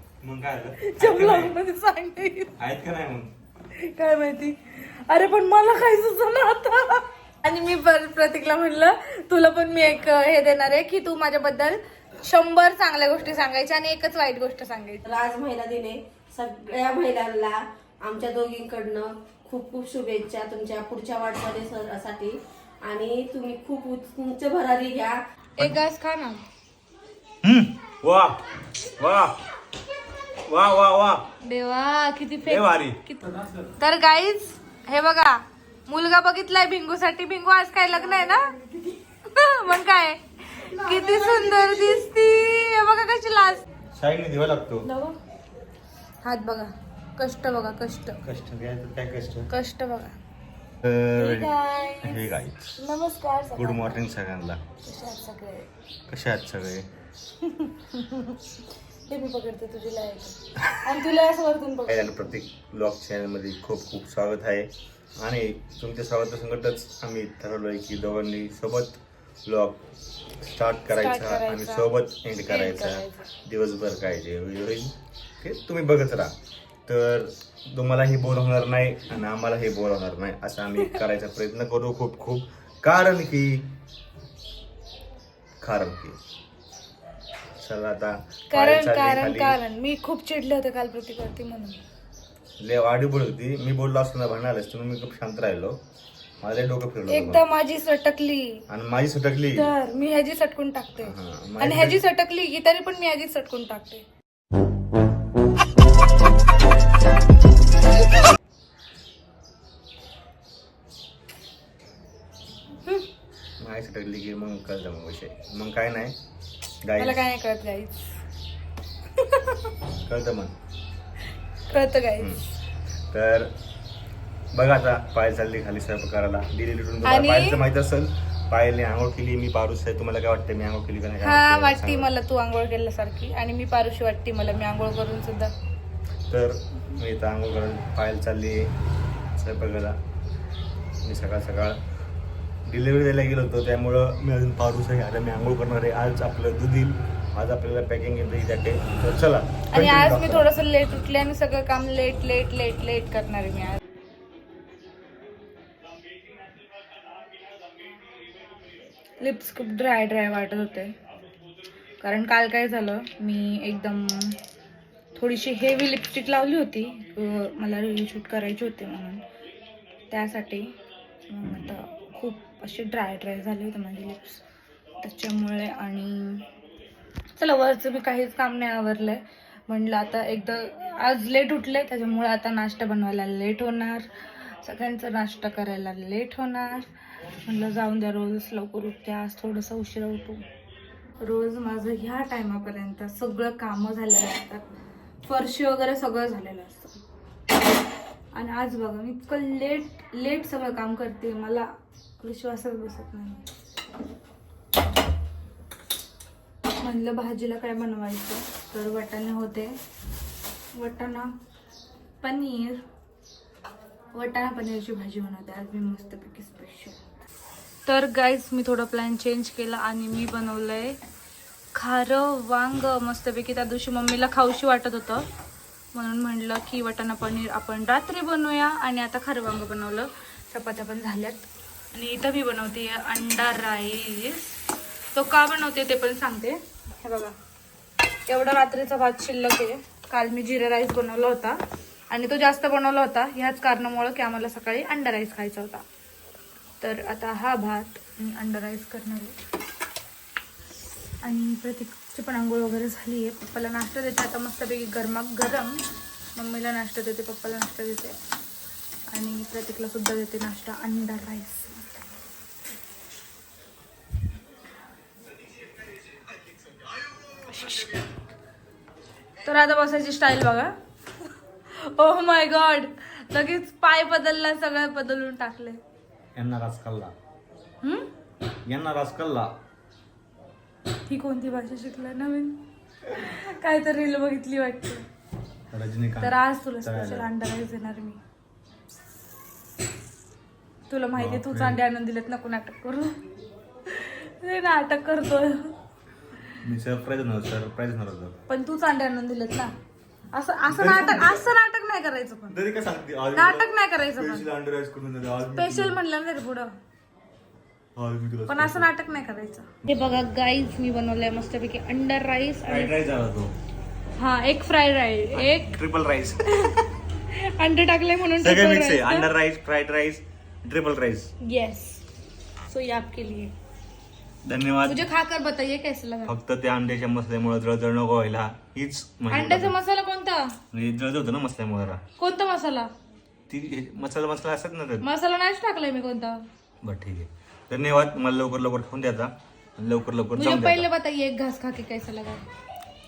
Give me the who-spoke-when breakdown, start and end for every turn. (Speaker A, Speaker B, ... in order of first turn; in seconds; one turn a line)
Speaker A: 0.2-1.5
Speaker B: 0.8-2.5
Speaker A: 2.6-3.3
Speaker B: 3.8-15.0
Speaker C: 15.0-25.1
Speaker B: 25.6-26.4
Speaker A: 27.4-28.4
Speaker A: 29.0-29.4
Speaker A: 30.5-31.2
Speaker B: 31.4-38.5
Speaker A: 32.4-33.0
Speaker B: 39.3-43.6
Speaker A: 43.9-44.9
Speaker B: 44.8-45.2
Speaker B: 46.2-48.2
Speaker A: 48.2-49.5
Speaker B: 49.5-50.1
Speaker A: 50.8-52.8
Speaker B: 51.1-52.2
Speaker B: 52.8-54.0
Speaker A: 53.5-54.6
Speaker B: 54.8-55.7
Speaker A: 56.1-56.9
Speaker B: 57.4-58.4
Speaker B: 59.1-62.0
Speaker A: 61.9-69.8
Speaker A: 70.4-76.3
Speaker B: 70.9-71.9
Speaker B: 72.5-73.3
Speaker A: 76.9-83.7
Speaker A: 85.6-86.2
Speaker A: 87.6-89.6
Speaker B: 88.5-91.8
Speaker A: 92.6-95.8
Speaker A: 96.4-97.4
Speaker B: 97.1-98.6
Speaker A: 98.7-99.7
Speaker B: 99.5-104.0
Speaker A: 101.0-102.0
Speaker A: 113.6-116.1
Speaker A: 116.8-117.2
Speaker B: 117.0-118.1
Speaker B: 119.2-119.7
Speaker A: 120.0-120.5
Speaker B: 121.7-122.4
Speaker A: 123.1-123.5
Speaker A: 124.5-132.1
Speaker B: 127.0-127.6
Speaker B: 131.2-135.5
Speaker A: 136.3-138.7
Speaker A: 139.3-139.9
Speaker A: 141.0-141.8
Speaker A: 142.7-150.5
Speaker B: 149.7-153.8
Speaker B: 159.2-160.9
Speaker B: 162.0-164.4
Speaker B: 165.1-169.2
Speaker B: 170.1-170.7
Speaker B: 171.3-174.4
Speaker B: 175.0-176.4
Speaker B: 177.4-186.9
Speaker B: 187.4-190.4
Speaker B: 191.2-194.7
Speaker B: 195.2-197.0
Speaker B: 198.3-201.7
Speaker B: 202.2-203.4
Speaker B: 206.8-209.7
Speaker B: 210.7-211.3
Speaker B: 212.2-212.8
Speaker B: 214.1-217.0
Speaker B: 217.8-221.0
Speaker B: 221.7-225.2
Speaker B: 225.9-234.5
Speaker B: 235.1-237.3
Speaker B: 238.3-241.6
Speaker B: 242.1-245.8
Speaker B: 246.8-249.3
Speaker B: 251.2-255.8
Speaker B: 256.3-258.1
Speaker B: 259.1-261.8
Speaker B: 267.4-268.0
Speaker B: 269.4-270.7
Speaker B: 271.7-275.8
Speaker A: 276.3-277.1
Speaker B: 277.8-278.1
Speaker A: 278.6-279.5
Speaker B: 281.1-285.0
Speaker A: 285.7-287.3
Speaker B: 286.2-288.2
Speaker B: 290.9-293.2
Speaker A: 291.2-291.8
Speaker B: 293.9-295.7
Speaker A: 296.6-298.3
Speaker B: 298.5-299.7
Speaker B: 300.3-302.5
Speaker A: 300.7-301.4
Speaker A: 302.5-306.0
Speaker B: 303.3-304.4
Speaker B: 305.5-306.7
Speaker A: 307.9-308.9
Speaker B: 308.5-312.9
Speaker A: 312.6-313.5
Speaker B: 314.2-315.8
Speaker A: 315.3-316.4
Speaker B: 317.3-319.3
Speaker A: 318.4-321.3
Speaker B: 321.4-322.0
Speaker B: 322.7-323.5
Speaker A: 324.4-325.1
Speaker B: 324.8-326.3
Speaker A: 326.2-329.7
Speaker B: 329.3-330.6
Speaker A: 330.7-332.0
Speaker B: 332.2-332.9
Speaker A: 333.5-335.1
Speaker B: 335.0-336.4
Speaker A: 336.8-340.9
Speaker B: 340.4-342.4